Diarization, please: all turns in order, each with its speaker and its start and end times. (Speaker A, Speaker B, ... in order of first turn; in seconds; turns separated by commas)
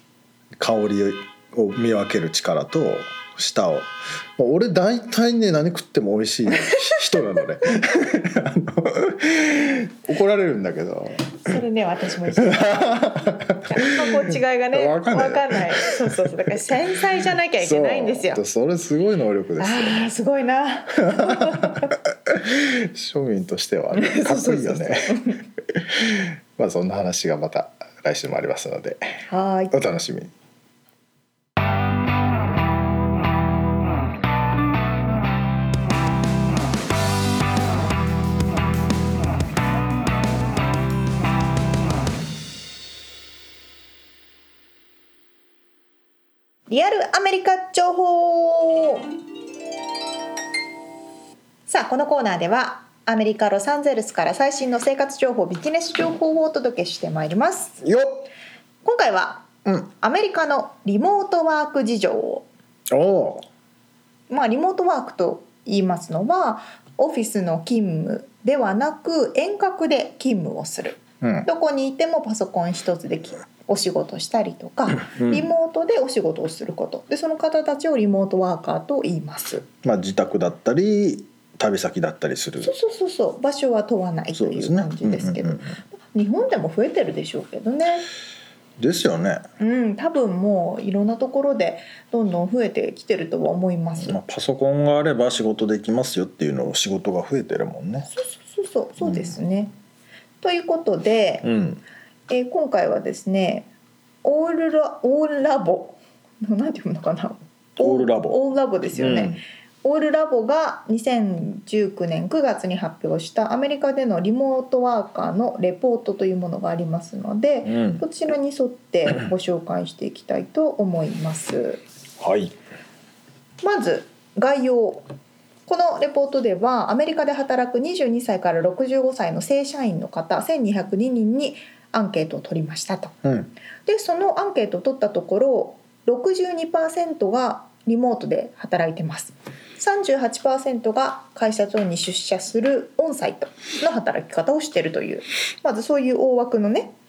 Speaker A: 0.6-11.6, Speaker B: 11.4-18.4, Speaker A: 12.3-16.9, Speaker A: 17.6-20.1, Speaker B: 19.6-21.9, Speaker A: 21.0-30.3, Speaker B: 23.9-25.4, Speaker B: 29.3-29.7, Speaker B: 46.7-49.1, Speaker B: 51.7-57.8, Speaker A: 57.8-58.2, Speaker B: 58.8-62.5, Speaker A: 62.9-63.5, Speaker B: 64.3-79.7, Speaker A: 71.2-71.5, Speaker A: 75.1-75.5, Speaker A: 79.8-82.7, Speaker B: 82.6-88.1, Speaker A: 84.3-85.8, Speaker A: 88.8-89.4, Speaker B: 89.6-94.2, Speaker A: 94.0-98.1, Speaker B: 98.1-99.7, Speaker A: 99.0-99.3, Speaker B: 100.4-101.5, Speaker A: 101.4-101.8, Speaker B: 102.3-103.7, Speaker B: 104.2-121.8, Speaker A: 107.8-108.4, Speaker A: 108.9-109.4, Speaker A: 117.6-118.0, Speaker A: 122.2-122.5, Speaker B: 123.6-125.0, Speaker B: 125.7-133.1, Speaker A: 133.2-133.5, Speaker B: 133.8-146.9